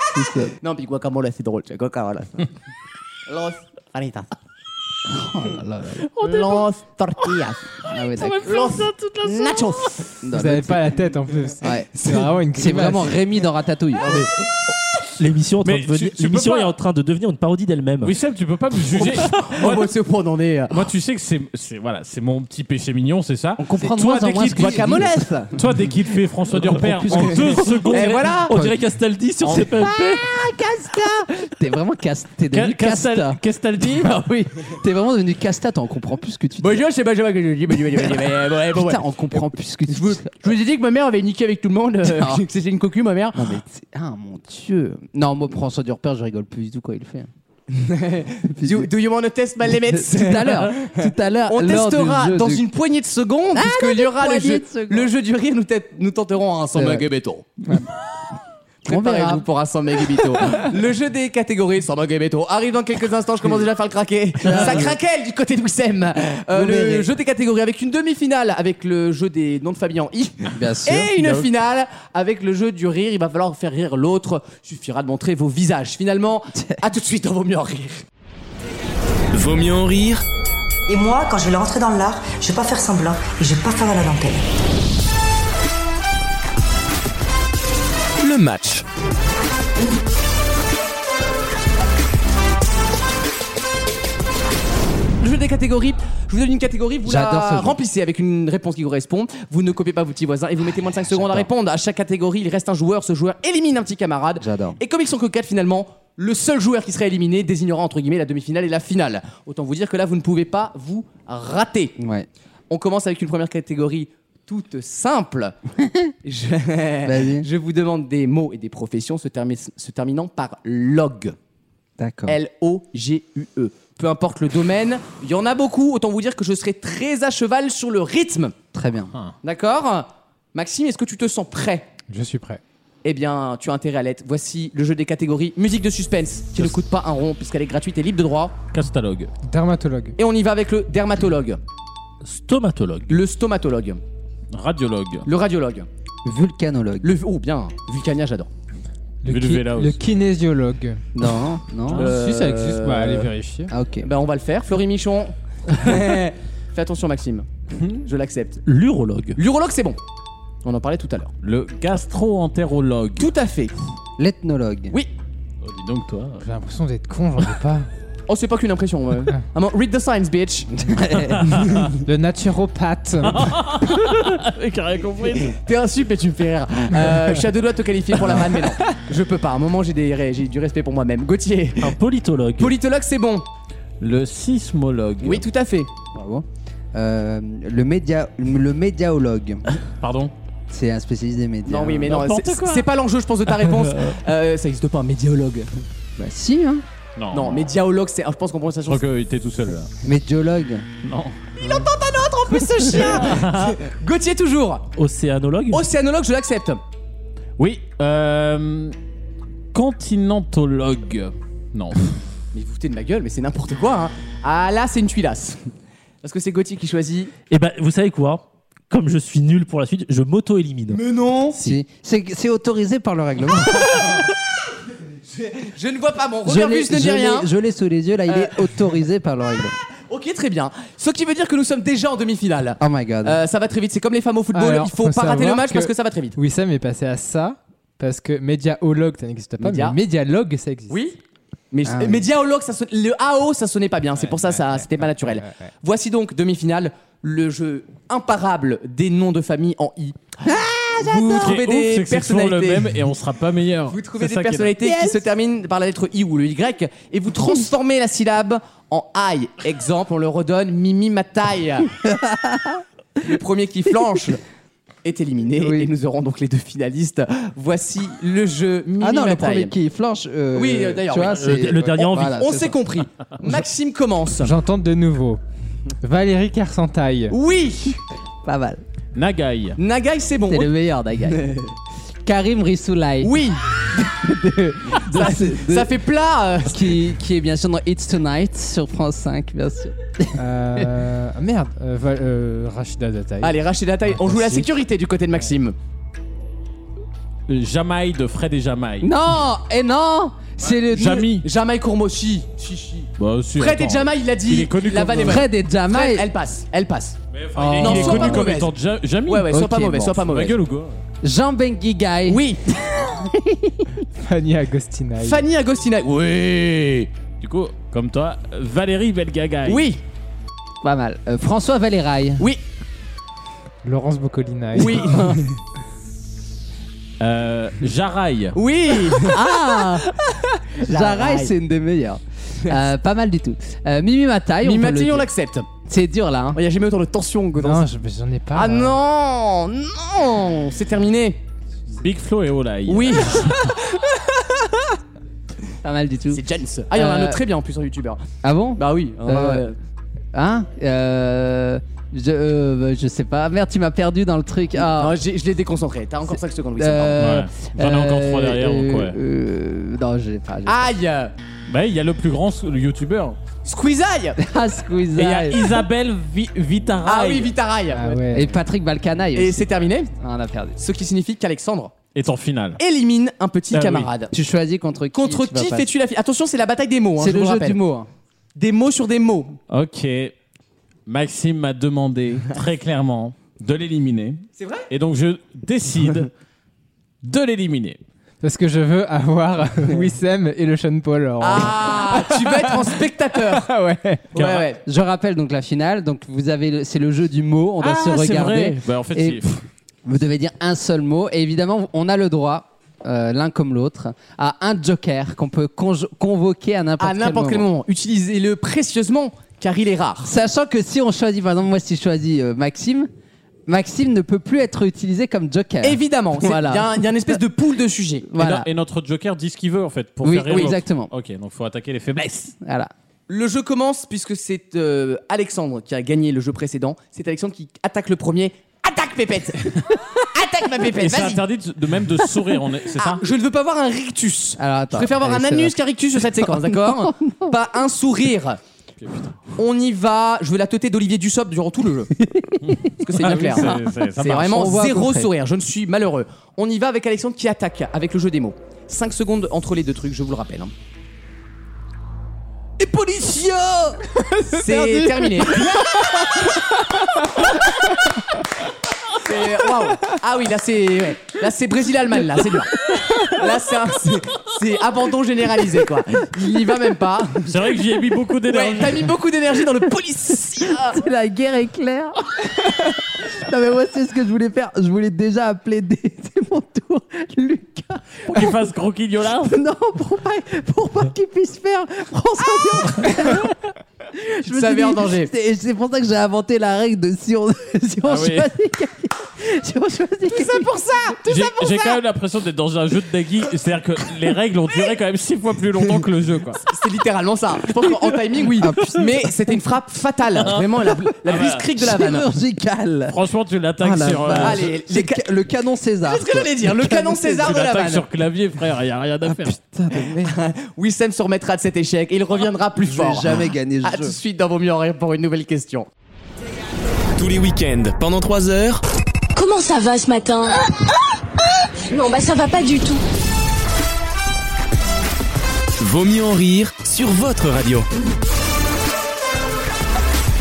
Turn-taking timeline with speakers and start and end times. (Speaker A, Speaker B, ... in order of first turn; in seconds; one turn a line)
Speaker A: 0.1-0.5
Speaker B: 0.6-2.5
Speaker B: 3.3-4.3
Speaker A: 5.1-6.1
Speaker B: 6.2-7.6
Speaker C: 6.2-6.6
Speaker A: 7.8-8.4
Speaker C: 7.9-10.1
Speaker B: 8.4-10.0
Speaker A: 10.2-11.0
Speaker D: 10.3-13.2
Speaker A: 11.6-14.1
Speaker E: 15.2-18.2
Speaker C: 15.6-16.8
Speaker C: 18.0-19.9
Speaker B: 18.9-20.9
Speaker C: 20.7-28.3
Speaker A: 23.6-25.6
Speaker B: 24.5-25.5
Speaker A: 26.6-28.8
Speaker B: 27.9-28.5
Speaker E: 28.0-30.2
Speaker C: 29.4-29.7
Speaker A: 29.4-33.4
Speaker C: 32.5-34.4
Speaker A: 34.8-36.8
Speaker B: 36.6-39.0
Speaker A: 38.7-40.3
Speaker B: 39.9-43.6
Speaker A: 42.0-42.4
Speaker A: 43.4-47.3
Speaker B: 47.7-57.5
Speaker A: 48.6-48.9
Speaker A: 49.8-52.7
Speaker A: 53.5-55.1
Speaker A: 56.8-57.1
Speaker B: 58.8-78.0
Speaker A: 58.9-59.5
Speaker A: 60.2-60.5
Speaker A: 64.4-65.0
Speaker A: 66.5-67.1
Speaker A: 70.5-71.4
Speaker A: 76.5-76.8
Speaker F: 79.3-80.2
Speaker G: 80.9-84.5
Speaker F: 88.2-88.8
Speaker B: 95.2-112.0
Speaker A: 97.0-97.8
Speaker A: 101.1-101.5
Speaker A: 104.4-104.8
Speaker A: 112.0-112.3
Speaker B: 112.7-115.6
Speaker A: 115.8-116.1
Speaker B: 116.2-121.3
Speaker A: 117.0-117.5
Speaker A: 122.0-122.4
Speaker B: 122.3-128.6
Speaker A: 128.7-129.1
Speaker B: 129.4-131.9
Speaker D: 132.1-132.6
Speaker B: 133.0-138.6
Speaker C: 138.7-139.3
Speaker D: 139.4-140.2
Speaker B: 140.2-141.6
Speaker E: 142.2-143.2
Speaker B: 143.1-144.0
Speaker C: 144.5-145.3
Speaker B: 145.3-145.9
Speaker A: 146.2-147.1
Speaker B: 147.0-148.5
Speaker D: 149.2-151.0
Speaker C: 149.3-150.0
Speaker A: 151.2-152.1
Speaker B: 151.9-153.3
Speaker D: 152.0-153.7
Speaker A: 153.7-154.1
Speaker B: 154.0-158.6
Speaker E: 158.7-159.4
Speaker B: 159.4-160.0
Speaker B: 160.6-161.3
Speaker C: 161.4-163.3
Speaker B: 163.2-163.8
Speaker A: 164.2-164.9
Speaker C: 165.6-166.5
Speaker D: 166.4-167.9
Speaker B: 168.3-170.7
Speaker A: 170.8-171.4
Speaker C: 171.4-171.8
Speaker D: 172.0-173.5
Speaker C: 173.2-175.6
Speaker B: 175.5-182.0
Speaker E: 181.8-182.8
Speaker B: 182.6-183.4
Speaker C: 184.0-185.5
Speaker B: 185.2-185.9
Speaker A: 186.1-189.6
Speaker C: 190.0-190.3
Speaker A: 190.7-192.2
Speaker B: 191.7-195.7
Speaker E: 192.1-192.8
Speaker A: 196.2-196.8
Speaker C: 197.2-197.7
Speaker B: 197.3-199.0
Speaker C: 198.9-199.9
Speaker A: 200.0-200.8
Speaker C: 201.0-201.4
Speaker B: 201.6-204.9
Speaker C: 203.0-203.7
Speaker E: 205.0-205.8
Speaker B: 205.7-206.8
Speaker C: 207.6-208.9
Speaker C: 209.7-212.2
Speaker B: 212.5-215.6
Speaker B: 216.2-217.3
Speaker E: 217.5-221.0
Speaker B: 220.9-221.6
Speaker A: 221.6-224.3
Speaker B: 225.3-227.5
Speaker A: 226.4-229.8
Speaker B: 228.3-228.6
Speaker B: 230.1-236.4
Speaker A: 232.8-233.4
Speaker D: 234.5-241.0
Speaker B: 239.6-240.0
Speaker B: 240.9-241.2
Speaker B: 241.7-250.2
Speaker A: 241.8-242.3
Speaker D: 244.3-245.7
Speaker A: 250.4-251.6
Speaker B: 251.0-252.9
Speaker C: 251.4-254.7
Speaker B: 253.9-261.9
Speaker A: 254.8-255.2
Speaker A: 262.0-262.8
Speaker B: 263.2-264.4
Speaker B: 265.0-269.7
Speaker A: 265.6-265.9
Speaker A: 269.0-272.8
Speaker B: 270.5-274.5
Speaker E: 271.2-272.4
Speaker D: 274.4-275.4
Speaker D: 276.0-277.4
Speaker B: 277.3-278.0
Speaker A: 278.4-278.8
Speaker C: 279.1-279.8
Speaker B: 279.8-280.7
Speaker A: 280.5-281.4
Speaker B: 281.3-281.7
Speaker A: 282.2-286.0
Speaker B: 283.2-283.7
Speaker B: 284.9-286.9
Speaker A: 286.7-290.9
Speaker D: 290.4-294.7
Speaker B: 293.4-295.8
Speaker C: 297.5-299.1
Speaker A: 299.0-301.3
Speaker C: 300.7-301.5
Speaker B: 300.9-307.2
Speaker C: 303.2-305.5
Speaker A: 305.2-306.3
Speaker C: 307.3-311.0
Speaker A: 307.6-308.6
Speaker B: 307.8-308.7
Speaker B: 309.3-310.6
Speaker A: 309.5-310.2
Speaker A: 311.2-314.1
Speaker B: 312.3-312.7
Speaker D: 314.2-315.4
Speaker B: 315.2-317.1
Speaker C: 317.4-319.9
Speaker B: 319.6-320.0
Speaker A: 320.8-322.5
Speaker D: 323.8-325.4
Speaker B: 324.7-325.5
Speaker C: 327.2-328.6
Speaker B: 328.6-329.9
Speaker A: 329.1-330.1
Speaker B: 330.8-331.5
Speaker A: 330.8-335.3
Speaker B: 334.6-335.7
Speaker A: 335.9-336.6
Speaker B: 336.5-337.9
Speaker D: 337.6-339.0
Speaker B: 338.5-341.4
Speaker C: 342.0-343.7
Speaker B: 342.9-343.6
Speaker A: 345.8-347.4
Speaker B: 346.3-348.2
Speaker A: 348.4-349.7
Speaker B: 348.8-349.8
Speaker A: 350.3-355.2
Speaker B: 354.8-357.4
Speaker A: 356.3-360.9
Speaker C: 357.2-359.2
Speaker B: 360.7-361.3
Speaker C: 361.7-363.4
Speaker B: 363.6-364.4
Speaker A: 364.4-365.8
Speaker C: 365.2-367.5
Speaker B: 367.1-368.3
Speaker D: 367.9-368.5
Speaker A: 368.3-370.8
Speaker B: 369.4-370.1
Speaker B: 370.8-371.9
Speaker C: 372.1-372.8
Speaker B: 372.8-374.3
Speaker C: 373.7-374.1
Speaker A: 374.3-375.9
Speaker B: 375.1-377.8
Speaker A: 377.2-378.1
Speaker B: 378.6-379.6
Speaker C: 379.7-380.3
Speaker C: 381.1-386.3
Speaker B: 384.6-384.9
Speaker C: 387.2-388.0
Speaker D: 388.4-393.0
Speaker B: 391.4-393.7
Speaker D: 393.7-394.2
Speaker B: 394.3-394.8
Speaker C: 394.4-394.7
Speaker A: 394.9-399.4
Speaker C: 397.8-399.6
Speaker A: 400.1-407.7
Speaker B: 407.0-410.3
Speaker A: 410.2-413.1
Speaker A: 413.7-417.1
Speaker B: 415.8-418.3
Speaker A: 418.3-418.7
Speaker C: 418.4-422.5
Speaker A: 420.2-421.1
Speaker A: 422.6-422.9
Speaker B: 423.3-431.4
Speaker C: 430.9-433.2
Speaker B: 432.9-438.6
Speaker A: 434.6-435.8
Speaker A: 436.4-437.5
Speaker C: 439.0-439.4
Speaker B: 439.6-442.1
Speaker A: 442.2-445.3
Speaker C: 442.7-444.6
Speaker B: 443.0-450.7
Speaker A: 453.2-453.8
Speaker D: 454.2-455.3
Speaker B: 454.5-456.1
Speaker B: 459.2-467.5
Speaker C: 467.5-469.2
Speaker B: 468.5-471.0
Speaker A: 470.6-478.6
Speaker C: 478.3-479.6
Speaker A: 479.4-483.6
Speaker A: 484.1-492.0
Speaker B: 484.4-485.3
Speaker C: 488.1-488.5
Speaker C: 491.3-496.6
Speaker B: 496.6-502.3
Speaker A: 498.6-499.3
Speaker A: 500.9-503.2
Speaker C: 501.3-501.6
Speaker C: 503.1-504.7
Speaker A: 503.8-507.6
Speaker B: 504.4-505.3
Speaker B: 506.0-508.1
Speaker C: 507.4-509.6
Speaker A: 509.3-510.3
Speaker B: 510.3-515.9
Speaker A: 512.8-514.2
Speaker F: 517.2-518.8
Speaker H: 519.4-520.6
Speaker H: 521.9-523.0
Speaker F: 525.8-527.9